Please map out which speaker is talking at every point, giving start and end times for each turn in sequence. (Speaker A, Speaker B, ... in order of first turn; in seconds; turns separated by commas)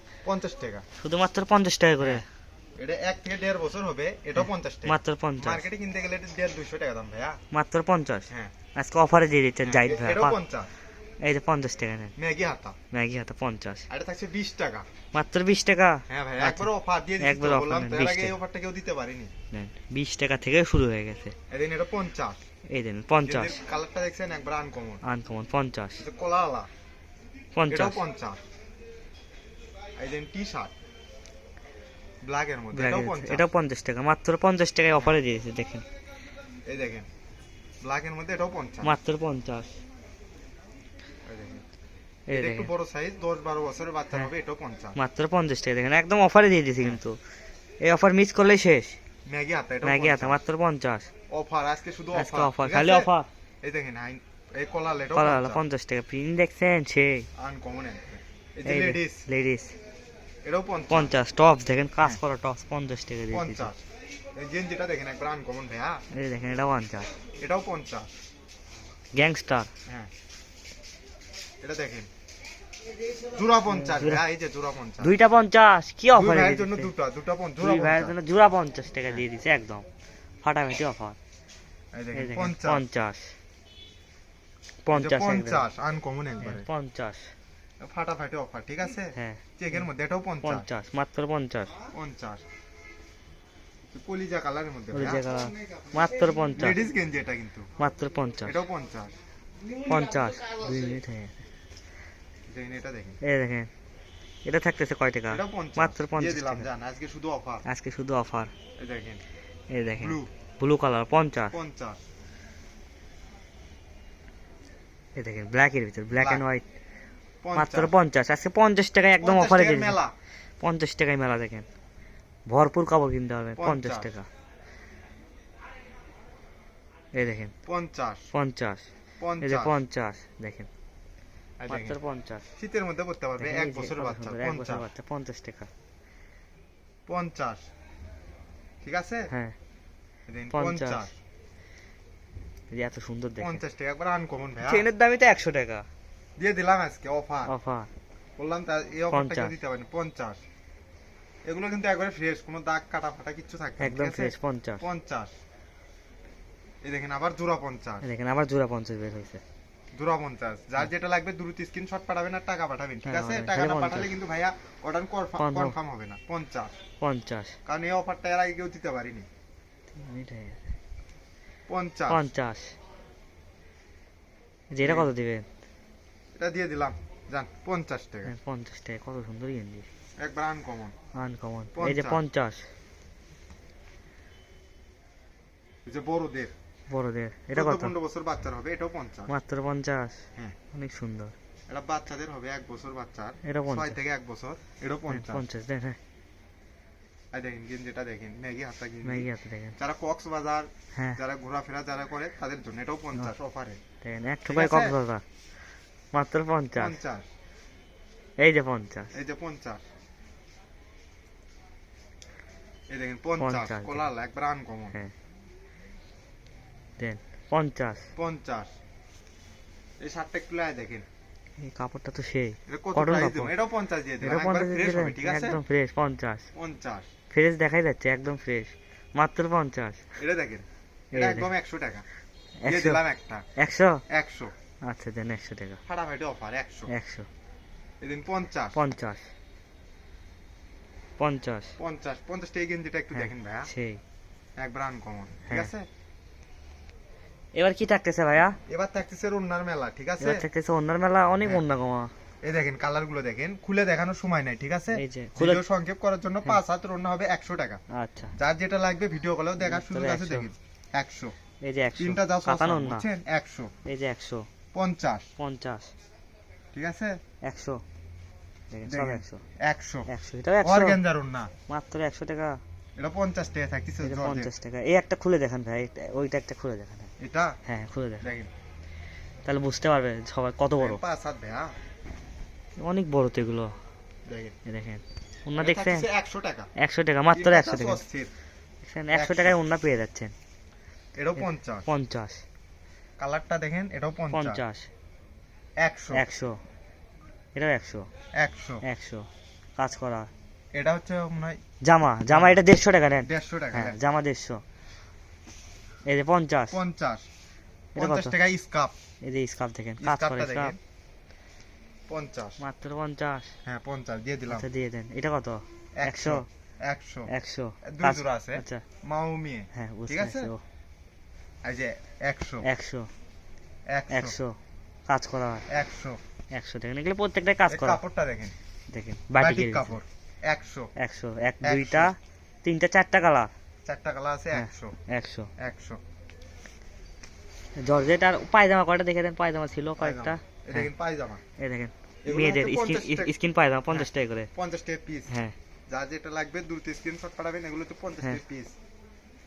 Speaker A: 0.2-0.8, Speaker B: 1.0-2.2, Speaker A: 2.8-7.4, Speaker B: 4.8-5.7, Speaker B: 7.5-10.3, Speaker A: 9.6-10.7, Speaker B: 11.2-12.1, Speaker A: 12.2-12.8, Speaker B: 12.9-13.8, Speaker A: 13.9-14.8, Speaker B: 15.1-16.7, Speaker A: 16.1-19.3, Speaker B: 17.2-18.3, Speaker B: 19.5-21.3, Speaker A: 21.5-22.4, Speaker B: 22.7-23.6, Speaker A: 23.2-25.0, Speaker B: 25.0-26.0, Speaker A: 26.0-26.7, Speaker B: 27.5-28.0, Speaker A: 27.7-28.4, Speaker A: 30.0-30.7, Speaker A: 32.2-33.5, Speaker B: 32.7-35.8, Speaker A: 36.6-37.1, Speaker A: 37.8-38.9, Speaker B: 38.8-39.8, Speaker A: 41.2-41.6, Speaker B: 42.3-42.7, Speaker A: 42.3-45.0, Speaker B: 44.9-47.2, Speaker B: 47.8-49.0, Speaker A: 49.2-50.4, Speaker B: 49.8-51.1, Speaker A: 51.3-53.1, Speaker B: 52.1-53.3, Speaker A: 53.6-55.6, Speaker B: 55.1-57.3, Speaker A: 57.4-59.3, Speaker B: 58.6-59.8, Speaker A: 60.4-61.1, Speaker B: 60.9-63.7, Speaker A: 63.3-63.8, Speaker A: 64.3-66.0, Speaker B: 66.1-67.1, Speaker A: 67.4-68.1, Speaker B: 69.1-69.7, Speaker A: 71.6-72.1, Speaker A: 73.3-75.1, Speaker B: 73.7-74.2, Speaker B: 75.0-76.9, Speaker A: 76.1-78.1, Speaker B: 77.6-79.8, Speaker B: 80.4-81.2, Speaker A: 81.9-82.8, Speaker B: 82.1-83.3, Speaker B: 84.8-85.6, Speaker A: 84.9-86.7, Speaker B: 86.4-87.3, Speaker A: 87.8-90.7, Speaker B: 89.1-89.4, Speaker B: 90.4-91.7, Speaker A: 91.9-92.4, Speaker A: 93.9-95.4, Speaker B: 94.9-96.8, Speaker A: 96.5-97.7, Speaker B: 97.8-98.6, Speaker A: 98.4-99.1, Speaker B: 99.8-101.3, Speaker A: 102.5-103.2, Speaker B: 103.2-103.7, Speaker B: 104.4-106.7, Speaker A: 105.3-107.6, Speaker B: 107.6-108.5, Speaker A: 108.8-109.2, Speaker B: 109.7-111.5, Speaker A: 110.0-110.3, Speaker A: 111.5-112.0, Speaker B: 115.2-116.6, Speaker A: 116.2-116.4, Speaker A: 117.4-117.9, Speaker B: 117.5-120.0, Speaker A: 119.2-120.1, Speaker B: 120.6-121.7, Speaker B: 122.5-124.3, Speaker A: 123.6-124.1, Speaker B: 127.1-127.5, Speaker A: 127.7-128.3, Speaker B: 128.3-128.9, Speaker A: 129.2-129.8, Speaker B: 129.4-130.7, Speaker A: 131.6-132.0, Speaker B: 131.7-132.5, Speaker A: 132.6-134.9, Speaker B: 133.4-135.7, Speaker A: 137.1-137.6, Speaker A: 138.8-139.3, Speaker B: 139.3-139.6, Speaker A: 140.3-141.1, Speaker B: 140.5-141.1, Speaker B: 142.7-143.6, Speaker A: 143.4-144.8, Speaker B: 144.6-145.9, Speaker A: 146.4-147.5, Speaker B: 147.5-147.9, Speaker A: 148.4-150.4, Speaker B: 149.1-149.5, Speaker A: 151.4-155.3, Speaker B: 153.8-154.8, Speaker A: 156.8-158.0, Speaker B: 158.0-159.4, Speaker A: 159.9-166.7, Speaker B: 163.0-164.1, Speaker B: 165.4-165.7, Speaker B: 167.0-167.6, Speaker A: 167.7-169.2, Speaker B: 169.9-170.7, Speaker A: 171.7-172.2, Speaker B: 172.1-172.7, Speaker B: 174.7-175.4, Speaker A: 174.8-175.1, Speaker A: 176.3-178.3, Speaker B: 178.2-179.9, Speaker A: 180.2-180.9, Speaker B: 181.1-182.7, Speaker A: 181.7-182.2, Speaker A: 185.8-186.5, Speaker B: 186.9-187.9, Speaker A: 187.5-189.3, Speaker B: 189.3-191.3, Speaker A: 191.7-195.4, Speaker B: 193.4-194.0, Speaker B: 195.1-196.0, Speaker A: 197.3-203.8, Speaker B: 199.0-199.8, Speaker B: 204.0-205.2, Speaker A: 204.4-204.9, Speaker B: 206.1-206.9, Speaker A: 206.8-207.2, Speaker B: 208.4-209.1, Speaker A: 209.1-209.8, Speaker A: 212.9-215.0, Speaker B: 213.4-214.1, Speaker B: 217.0-218.1, Speaker A: 218.1-218.7, Speaker A: 220.0-221.1, Speaker B: 221.6-223.5, Speaker A: 222.7-225.6, Speaker B: 224.2-226.5, Speaker A: 226.5-227.1, Speaker B: 227.3-230.0, Speaker A: 230.2-232.0, Speaker B: 231.1-231.5, Speaker B: 232.6-233.0, Speaker A: 232.6-233.4, Speaker B: 233.6-234.0, Speaker A: 234.1-234.5, Speaker B: 234.8-235.8, Speaker A: 235.8-236.9, Speaker B: 236.9-237.3, Speaker A: 238.0-238.8, Speaker B: 238.7-239.3, Speaker B: 241.2-241.8, Speaker A: 241.8-243.7, Speaker B: 243.1-244.0, Speaker A: 244.6-245.8, Speaker B: 247.5-248.6, Speaker A: 248.7-250.4, Speaker B: 250.2-252.1, Speaker A: 252.4-257.8, Speaker B: 254.9-255.6, Speaker B: 257.9-258.3, Speaker A: 258.4-261.3, Speaker B: 259.6-260.5, Speaker B: 261.6-263.1, Speaker A: 262.0-263.7, Speaker B: 263.9-264.5, Speaker A: 264.7-265.3, Speaker B: 265.4-265.9, Speaker A: 266.7-267.2, Speaker B: 267.4-267.8, Speaker B: 268.7-269.4, Speaker A: 268.9-270.1, Speaker B: 270.1-271.0, Speaker A: 270.6-271.5, Speaker B: 271.7-272.6, Speaker A: 273.0-274.5, Speaker B: 274.0-277.1, Speaker A: 277.2-277.6, Speaker B: 277.6-278.3, Speaker A: 278.2-278.5, Speaker B: 279.4-281.0, Speaker A: 280.8-281.7, Speaker B: 282.8-283.7, Speaker A: 284.2-284.5, Speaker B: 284.6-286.1, Speaker A: 285.6-286.7, Speaker B: 286.8-288.0, Speaker A: 287.3-288.3, Speaker B: 288.8-290.3, Speaker A: 289.1-289.6, Speaker A: 291.2-291.9, Speaker B: 291.9-292.4, Speaker A: 293.2-294.6, Speaker B: 294.3-294.9, Speaker A: 295.8-296.2, Speaker B: 296.1-296.6, Speaker B: 297.5-298.1, Speaker A: 298.4-298.8, Speaker B: 298.8-300.3, Speaker A: 300.7-301.6, Speaker B: 301.8-304.6, Speaker A: 302.3-302.6, Speaker A: 303.2-304.0, Speaker B: 306.1-306.8, Speaker A: 306.7-307.2, Speaker A: 307.9-308.9, Speaker B: 308.0-308.3, Speaker B: 309.2-310.7, Speaker A: 310.0-310.8, Speaker A: 312.1-312.6, Speaker B: 312.6-313.5, Speaker A: 313.6-314.7, Speaker B: 314.5-316.5, Speaker A: 315.9-317.3, Speaker B: 317.3-318.8, Speaker A: 317.8-320.5, Speaker B: 319.7-320.6, Speaker A: 321.6-322.6, Speaker B: 322.6-323.1, Speaker A: 323.9-324.4, Speaker B: 324.1-324.6, Speaker B: 325.1-325.6, Speaker A: 325.7-326.2, Speaker B: 326.5-328.0, Speaker A: 327.7-328.6, Speaker B: 328.9-329.9, Speaker A: 329.4-330.9, Speaker B: 330.9-333.5, Speaker A: 331.6-332.1, Speaker A: 333.8-334.9, Speaker B: 334.5-335.5, Speaker A: 335.6-336.0, Speaker B: 337.8-340.9, Speaker A: 340.0-341.4, Speaker B: 341.6-344.5, Speaker A: 342.2-343.3, Speaker A: 343.9-345.3, Speaker B: 345.3-345.5, Speaker A: 345.9-348.7